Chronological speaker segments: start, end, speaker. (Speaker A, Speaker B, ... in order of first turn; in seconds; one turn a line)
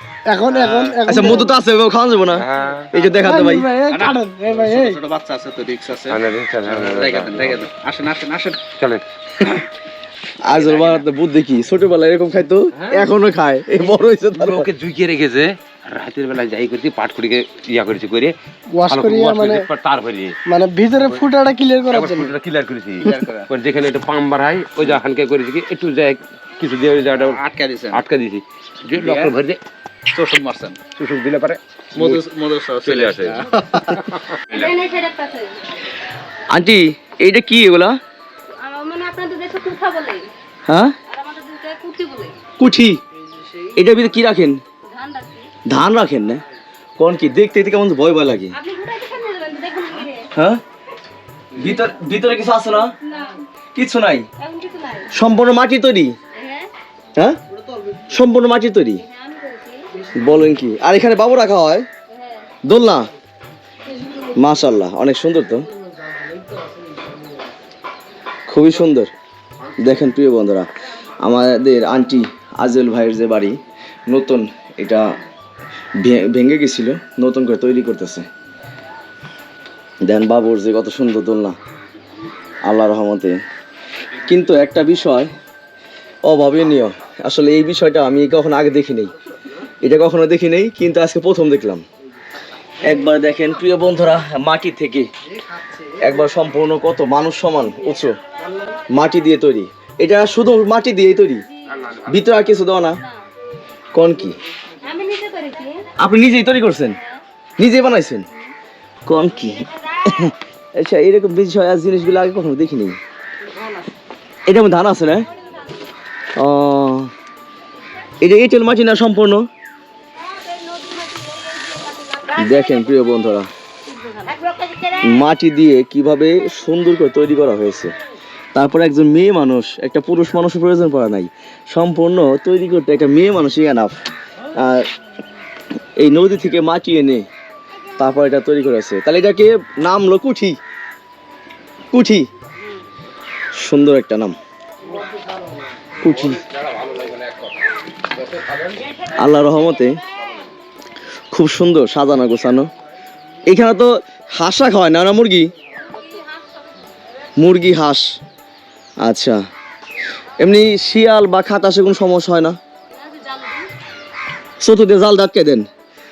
Speaker A: 0.3-1.5
Speaker B: 0.5-1.4
Speaker C: 1.1-3.7
Speaker D: 2.4-2.9
Speaker B: 2.9-3.3
Speaker A: 3.2-5.0
Speaker B: 3.9-8.6
Speaker D: 6.1-7.6
Speaker C: 10.4-14.7
Speaker B: 10.5-11.0
Speaker D: 12.8-13.1
Speaker D: 14.4-18.3
Speaker A: 18.7-19.6
Speaker D: 18.9-20.3
Speaker A: 20.4-22.3
Speaker D: 21.9-27.4
Speaker B: 23.0-23.5
Speaker B: 27.1-28.0
Speaker D: 27.9-29.6
Speaker B: 28.9-29.3
Speaker B: 30.1-30.8
Speaker D: 31.0-32.2
Speaker B: 31.9-34.0
Speaker D: 32.8-34.7
Speaker E: 34.5-35.5
Speaker C: 36.5-38.0
Speaker E: 38.5-40.3
Speaker C: 40.7-41.0
Speaker E: 41.1-42.4
Speaker C: 42.6-43.0
Speaker C: 43.8-44.6
Speaker E: 44.9-45.5
Speaker C: 45.7-46.4
Speaker C: 47.0-48.5
Speaker E: 48.5-50.3
Speaker C: 50.3-50.6
Speaker C: 51.6-52.9
Speaker E: 53.0-53.4
Speaker C: 53.7-54.2
Speaker E: 54.4-55.1
Speaker C: 55.1-56.1
Speaker E: 56.4-56.7
Speaker C: 58.1-59.0
Speaker E: 59.0-59.9
Speaker A: 60.0-60.4
Speaker C: 60.2-61.9
Speaker E: 62.1-62.5
Speaker C: 62.6-63.1
Speaker A: 63.8-64.4
Speaker C: 64.4-65.7
Speaker A: 65.7-67.5
Speaker C: 68.5-69.1
Speaker C: 69.8-70.7
Speaker C: 71.2-75.0
Speaker C: 76.0-78.3
Speaker C: 80.0-81.5
Speaker C: 82.7-83.4
Speaker C: 84.3-85.3
Speaker C: 86.2-89.1
Speaker C: 89.8-91.8
Speaker C: 92.8-95.1
Speaker A: 95.4-96.1
Speaker C: 96.0-98.2
Speaker C: 98.9-101.4
Speaker C: 102.1-103.0
Speaker C: 103.9-104.4
Speaker E: 104.8-105.8
Speaker C: 106.0-107.0
Speaker C: 107.6-108.2
Speaker C: 109.0-113.0
Speaker C: 114.5-115.3
Speaker C: 116.4-117.1
Speaker C: 118.2-119.4
Speaker E: 120.4-122.8
Speaker C: 122.4-123.5
Speaker E: 123.9-124.9
Speaker C: 125.0-127.9
Speaker C: 128.5-133.9
Speaker C: 134.6-134.9
Speaker C: 136.0-137.3
Speaker C: 138.0-140.6
Speaker C: 141.9-142.3
Speaker C: 143.6-144.4
Speaker A: 144.9-145.6
Speaker C: 146.0-146.4
Speaker D: 146.0-148.8
Speaker C: 149.1-149.9
Speaker C: 151.3-152.7
Speaker C: 153.5-155.5
Speaker C: 157.4-158.1
Speaker C: 159.0-159.4
Speaker C: 160.4-162.6
Speaker E: 163.0-163.7
Speaker C: 164.6-165.7